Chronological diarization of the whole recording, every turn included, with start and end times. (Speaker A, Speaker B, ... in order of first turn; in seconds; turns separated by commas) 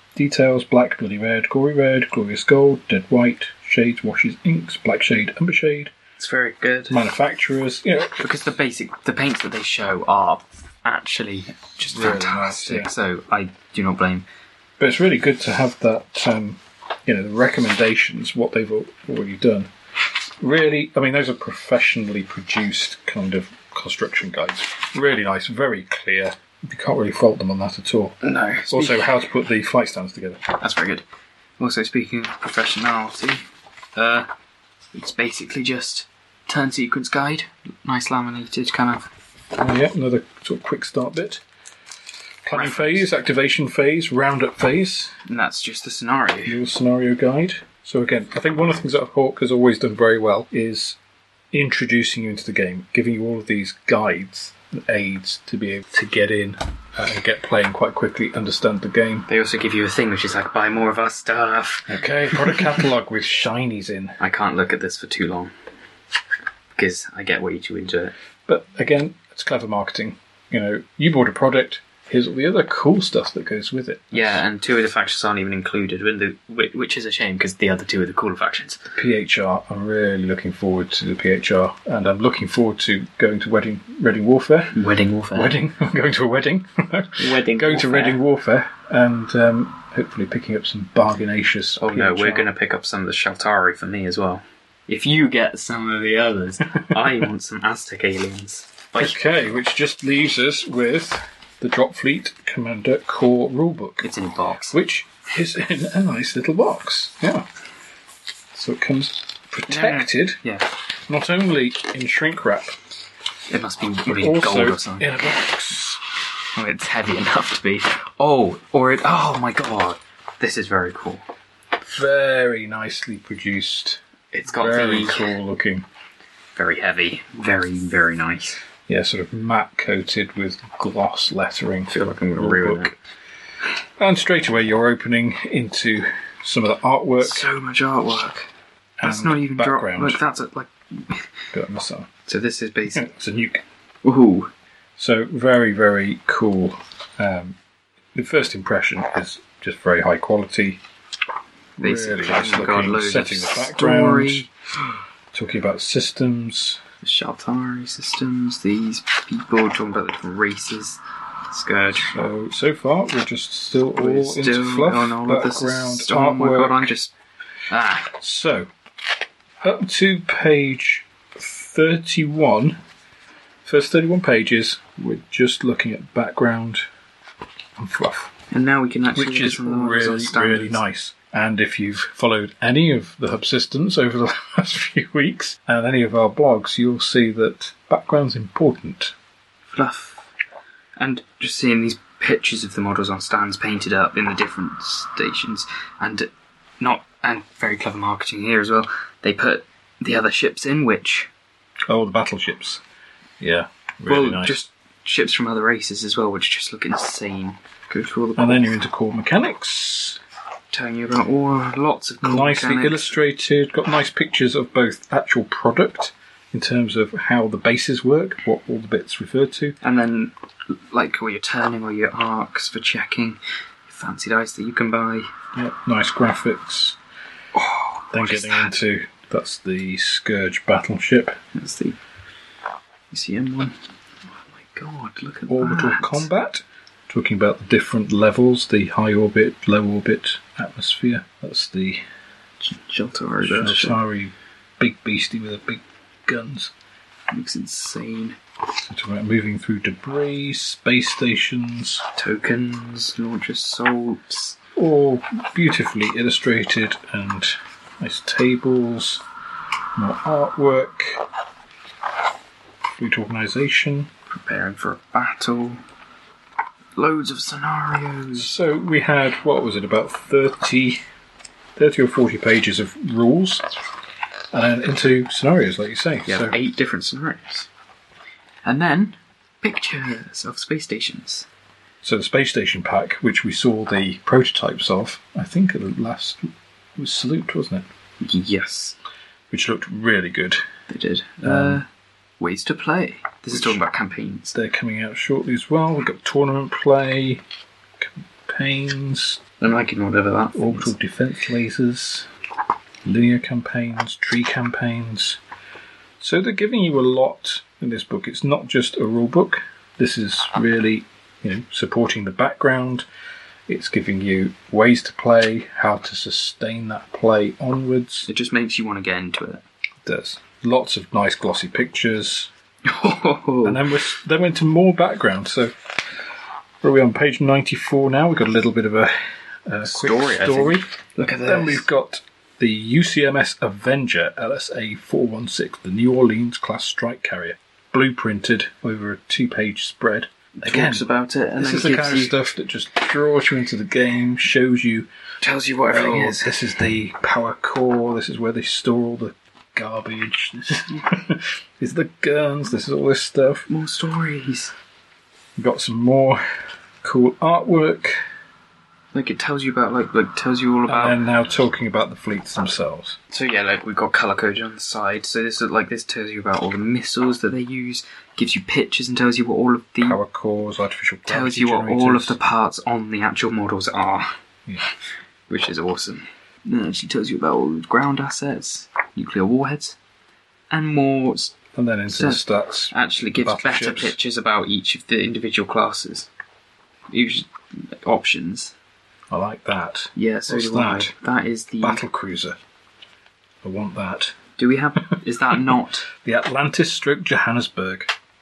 Speaker A: 0.2-5.9, Speaker B: 6.2-7.1, Speaker A: 6.9-8.3, Speaker B: 8.2-14.3, Speaker A: 11.9-12.9, Speaker A: 14.8-19.7, Speaker A: 20.4-28.2, Speaker B: 28.2-29.2, Speaker A: 28.7-30.4, Speaker B: 30.6-31.1, Speaker B: 31.6-33.4, Speaker B: 34.0-34.3, Speaker B: 34.9-39.1, Speaker A: 39.5-41.4, Speaker A: 42.5-45.2, Speaker B: 42.5-43.1, Speaker B: 45.3-46.6, Speaker A: 46.5-51.0, Speaker A: 51.5-59.3, Speaker B: 59.3-62.7, Speaker A: 61.9-64.2, Speaker B: 64.2-65.5, Speaker B: 66.8-68.1, Speaker A: 68.5-74.4, Speaker B: 74.1-78.8, Speaker A: 78.9-84.8, Speaker B: 84.7-85.6, Speaker A: 85.3-92.5, Speaker B: 87.2-88.2, Speaker B: 91.8-99.2, Speaker A: 99.0-104.1, Speaker B: 104.0-104.8, Speaker A: 104.7-107.5, Speaker A: 108.5-110.4, Speaker B: 109.7-110.7, Speaker A: 111.1-112.8, Speaker B: 113.5-115.3, Speaker A: 114.1-116.0, Speaker B: 116.6-121.2, Speaker A: 121.8-125.9, Speaker B: 124.3-125.3, Speaker B: 126.5-128.6, Speaker A: 128.9-132.9, Speaker B: 131.9-133.0, Speaker A: 134.0-137.5, Speaker B: 137.2-138.5, Speaker A: 139.0-140.2, Speaker B: 139.0-141.3, Speaker A: 141.5-142.1, Speaker B: 142.3-143.1, Speaker A: 142.9-143.6, Speaker B: 144.0-144.5, Speaker A: 145.0-147.6, Speaker A: 148.2-150.8, Speaker A: 151.8-154.5, Speaker B: 151.8-154.5, Speaker A: 155.3-156.8, Speaker B: 157.0-162.2, Speaker A: 162.1-166.9, Speaker B: 164.0-167.1, Speaker B: 167.7-168.1, Speaker A: 168.1-168.7, Speaker A: 169.6-172.8, Speaker A: 173.7-176.9, Speaker A: 177.8-178.3, Speaker B: 178.5-180.8, Speaker A: 179.1-189.1, Speaker B: 189.7-190.2, Speaker B: 191.0-201.3, Speaker A: 201.9-202.8, Speaker A: 203.4-204.6, Speaker B: 204.1-208.8, Speaker A: 208.4-210.2, Speaker B: 210.7-213.2, Speaker A: 212.2-219.8, Speaker B: 219.8-220.3, Speaker B: 220.9-225.3, Speaker A: 225.5-227.0, Speaker B: 227.6-228.8, Speaker A: 228.1-231.4, Speaker B: 231.5-232.0, Speaker B: 233.1-233.8, Speaker B: 234.5-236.3, Speaker A: 235.5-242.0, Speaker B: 242.6-244.0, Speaker A: 243.4-246.7, Speaker B: 247.3-248.4, Speaker A: 248.8-252.0, Speaker B: 252.2-254.6, Speaker A: 254.8-259.2, Speaker A: 260.0-261.2, Speaker A: 263.0-264.1, Speaker B: 264.3-265.8, Speaker B: 267.0-268.5, Speaker A: 268.4-271.0, Speaker A: 271.8-273.7, Speaker A: 274.5-276.6, Speaker B: 276.3-277.7, Speaker B: 278.6-281.5, Speaker A: 282.0-287.9, Speaker B: 288.2-289.0, Speaker A: 289.5-290.6, Speaker B: 290.9-291.9, Speaker A: 291.4-291.8, Speaker B: 292.4-294.5, Speaker A: 294.5-297.4, Speaker A: 298.0-299.4, Speaker B: 299.6-300.9, Speaker A: 300.5-302.3, Speaker A: 303.1-305.4, Speaker A: 306.2-313.1, Speaker A: 313.7-318.3, Speaker B: 318.3-319.6, Speaker A: 320.1-322.5, Speaker B: 322.9-323.9, Speaker A: 323.6-325.9, Speaker A: 326.8-329.1, Speaker A: 329.7-330.9, Speaker B: 329.8-331.9, Speaker A: 331.4-341.1, Speaker B: 340.6-342.4, Speaker A: 341.6-345.1, Speaker B: 345.4-346.5, Speaker A: 345.9-353.7, Speaker B: 353.7-354.7, Speaker A: 355.6-356.4, Speaker A: 357.0-358.2, Speaker B: 359.1-361.2, Speaker A: 360.9-363.2, Speaker B: 363.3-370.2, Speaker A: 370.0-372.4, Speaker B: 371.3-374.3, Speaker B: 375.5-380.0, Speaker B: 380.7-381.6, Speaker A: 381.8-384.2, Speaker B: 382.1-386.3, Speaker B: 387.1-388.7, Speaker A: 389.3-391.1, Speaker B: 390.2-392.0, Speaker A: 391.8-392.6, Speaker A: 393.6-394.4, Speaker B: 394.6-396.1, Speaker A: 395.5-398.1